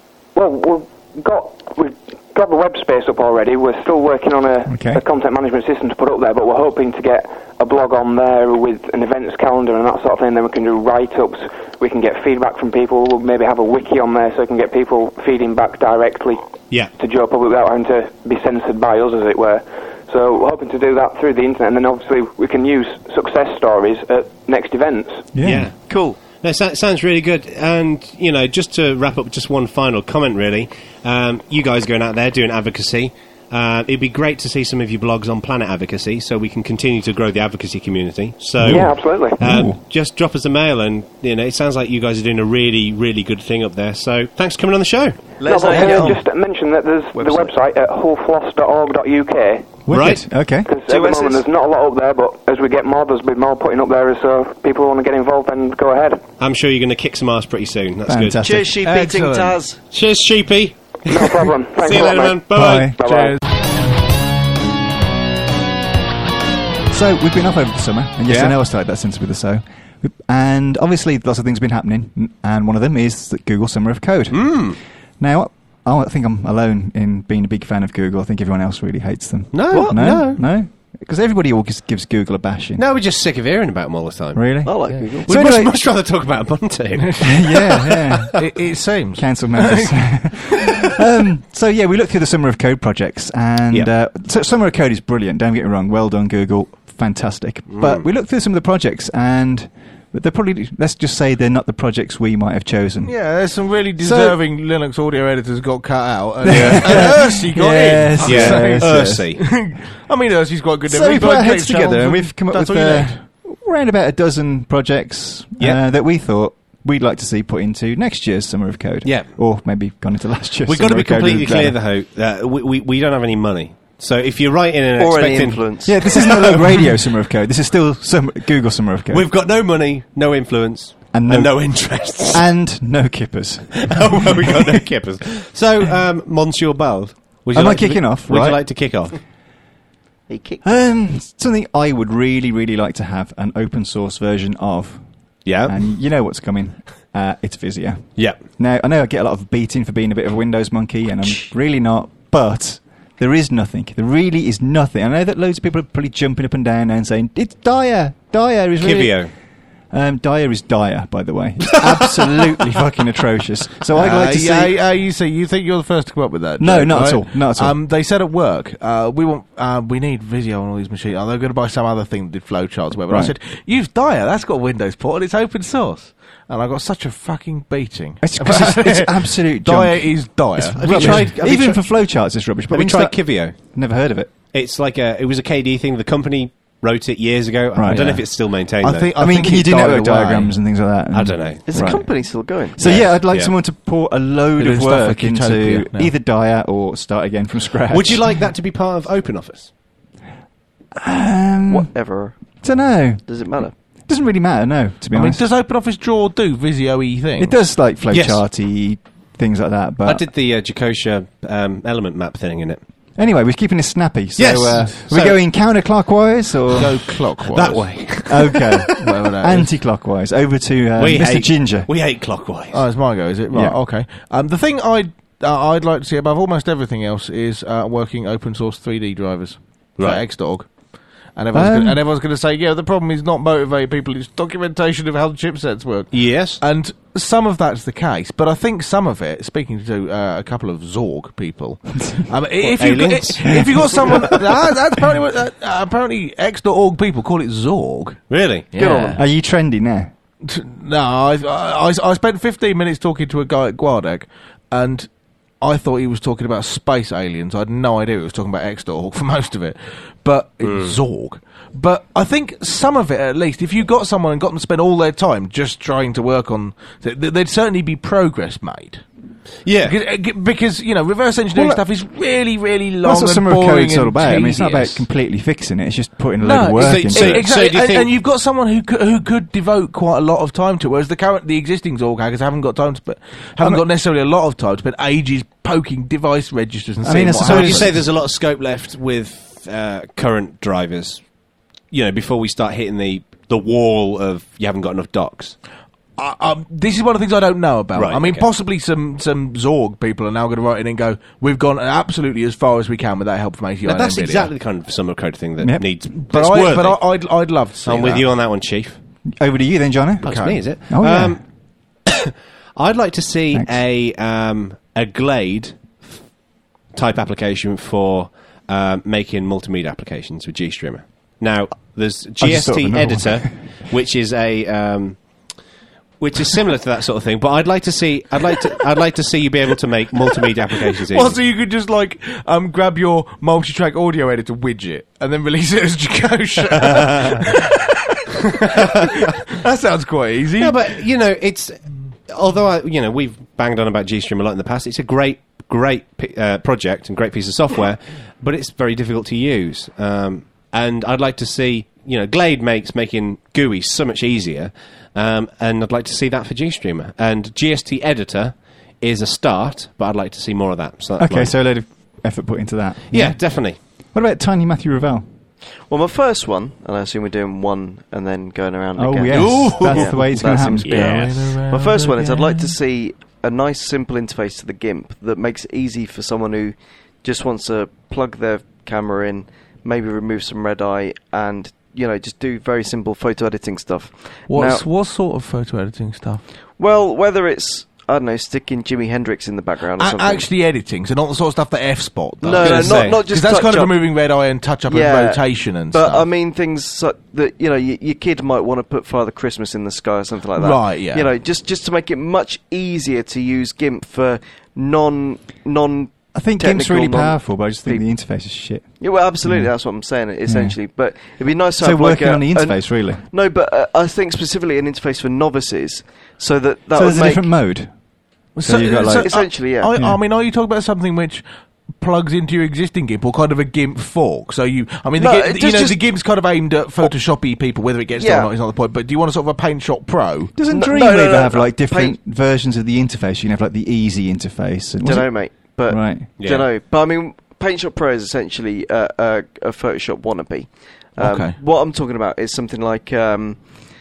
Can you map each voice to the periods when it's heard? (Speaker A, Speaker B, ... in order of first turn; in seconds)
Speaker A: 0.3-16.4, 17.0-25.3, 38.6-39.4, 45.5-49.8, 50.6-56.2, 61.1-63.4
Speaker B: 4.7-5.0, 25.4-25.7, 38.6-39.8, 49.9-50.7, 58.1-58.7, 62.5-63.0, 66.9-82.8, 84.3-85.8, 87.2-88.4, 89.2-103.1, 104.0-104.4, 106.4-109.3, 110.9-121.8, 125.8-129.3, 131.1-131.6, 132.3-134.9, 137.5-138.6, 140.6-145.0, 145.6-159.2, 159.9-164.8, 166.6-167.8, 173.1-173.3, 178.2-184.3, 187.8-188.2, 189.2-198.3, 201.0-201.9, 202.6-203.3, 204.1-205.4, 207.4-210.3, 213.2-217.0, 218.3-221.9, 231.5-232.0, 249.2-250.1, 271.5-271.8, 273.0-277.5, 287.0-287.9, 309.4-311.4, 322.4-323.5, 361.2-365.3, 369.0-371.1, 406.3-408.9, 409.4-409.7, 410.5-410.8, 411.8-413.2, 416.9-417.9, 418.6-419.3, 430.6-435.3, 435.9-436.3
Speaker C: 25.4-45.3, 49.9-50.3, 56.4-58.4, 59.9-63.0, 68.3-68.6, 74.3-74.8, 79.5-80.4, 82.8-88.3, 97.7-98.1, 106.5-107.1, 108.2-109.4, 120.7-127.0, 129.1-132.5, 133.8-139.2, 145.4-145.8, 158.8-159.3, 180.8-181.9, 182.7-183.6, 184.5-189.3, 191.1-191.7, 192.8-193.5, 197.9-199.7, 208.1-208.4, 210.1-212.8, 214.4-215.4, 217.5-219.1, 221.0-222.8, 236.1-236.6, 242.6-244.4, 248.3-248.7, 260.6-261.0, 269.6-270.0, 276.8-278.1, 287.4-291.2, 291.9-295.6, 297.9-298.5, 303.9-307.1, 307.9-309.0, 310.2-311.4, 312.1-316.2, 316.9-325.2, 326.2-331.4, 336.9-337.4, 338.8-339.2, 340.6-361.5, 363.1-363.8, 370.9-371.3, 392.4-393.2, 436.4-436.7
Speaker D: 25.9-26.2, 45.4-46.2, 47.1-47.5, 50.9-51.4, 58.4-59.8, 84.7-85.3, 125.0-126.0, 140.3-140.8, 191.7-192.9, 201.7-202.4, 203.2-203.7, 248.8-249.2, 365.9-384.8, 386.8-390.5, 392.4-394.0, 394.9-408.1, 409.0-417.4, 419.1-419.9, 425.2-426.0, 428.2-428.5, 430.7-432.2, 435.0-443.6
Speaker E: 58.9-59.6, 63.0-63.4, 88.4-90.7, 103.0-113.2, 163.9-181.3, 187.9-188.2, 188.8-190.6, 194.6-196.1, 205.1-207.6, 216.7-217.9, 219.0-219.7, 222.7-230.7, 231.3-248.2, 248.7-249.2, 250.4-255.1, 255.6-269.0, 269.8-275.0, 276.4-288.0, 296.2-304.5, 306.2-308.3, 310.2-310.6, 331.0-340.9, 369.3-372.8, 384.5-386.4, 390.0-396.3, 400.6-401.3, 418.6-421.4, 422.0-430.5, 441.2-441.6